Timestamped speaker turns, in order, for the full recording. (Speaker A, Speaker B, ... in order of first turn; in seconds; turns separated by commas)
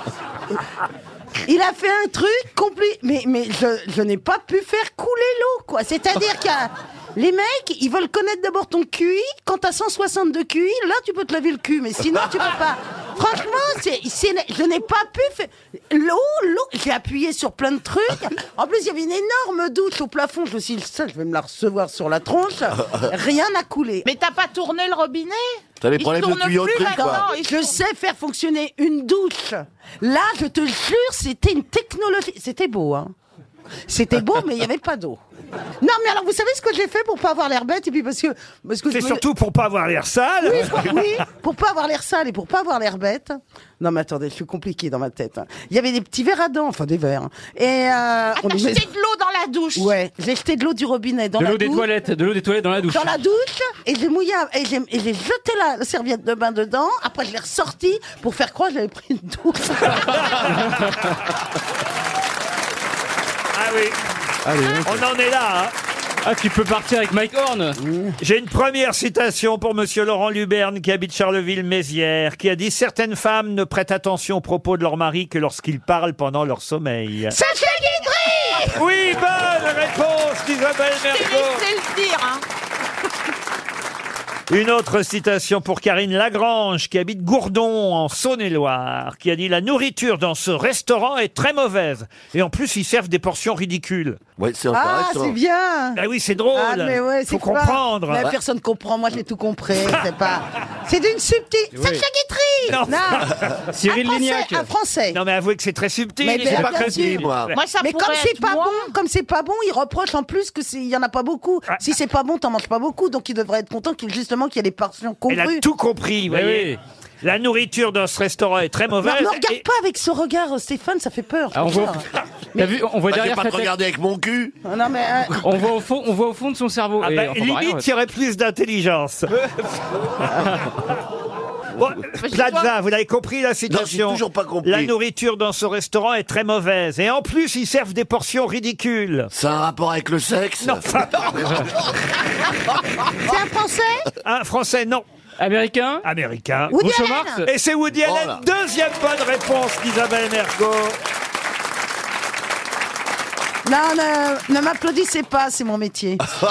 Speaker A: 1.5-24.1, Speaker B: 24.0-27.8, Speaker C: 25.8-27.3, Speaker A: 26.9-33.1, Speaker A: 33.9-35.2, Speaker A: 35.8-39.2, Speaker D: 38.9-41.0, Speaker A: 40.4-48.9, Speaker B: 48.4-49.9, Speaker A: 49.7-51.9, Speaker E: 51.4-53.1, Speaker A: 52.9-60.3, Speaker D: 60.1-60.5, Speaker D: 63.5-63.9, Speaker E: 64.5-65.0, Speaker D: 64.8-65.7, Speaker E: 66.2-67.8, Speaker A: 67.8-68.1, Speaker D: 68.2-77.3, Speaker B: 77.4-77.6, Speaker A: 77.5-78.6, Speaker D: 78.7-81.6, Speaker B: 81.1-82.4, Speaker D: 84.5-94.2, Speaker C: 94.4-95.4, Speaker A: 94.7-96.0, Speaker D: 96.0-98.3, Speaker A: 96.5-103.2, Speaker D: 102.7-103.5, Speaker E: 103.7-104.7, Speaker A: 103.9-105.2, Speaker D: 105.1-107.6, Speaker A: 106.2-115.6, Speaker E: 106.6-107.2, Speaker C: 107.2-107.5, Speaker B: 107.5-108.9, Speaker D: 115.3-119.6, Speaker E: 116.3-116.8, Speaker A: 119.0-122.0, Speaker E: 121.5-122.0, Speaker E: 122.5-123.7, Speaker C: 123.0-124.5, Speaker A: 124.6-125.3, Speaker E: 125.4-127.8, Speaker D: 127.0-129.3, Speaker D: 131.8-139.3, Speaker C: 133.7-134.9, Speaker C: 139.3-140.9, Speaker D: 140.6-141.4, Speaker E: 141.4-141.7, Speaker A: 143.3-144.0, Speaker D: 144.2-145.0, Speaker E: 145.4-146.0, Speaker D: 146.0-150.9, Speaker A: 146.7-147.4, Speaker E: 146.7-147.4, Speaker C: 148.0-148.4, Speaker A: 153.6-156.2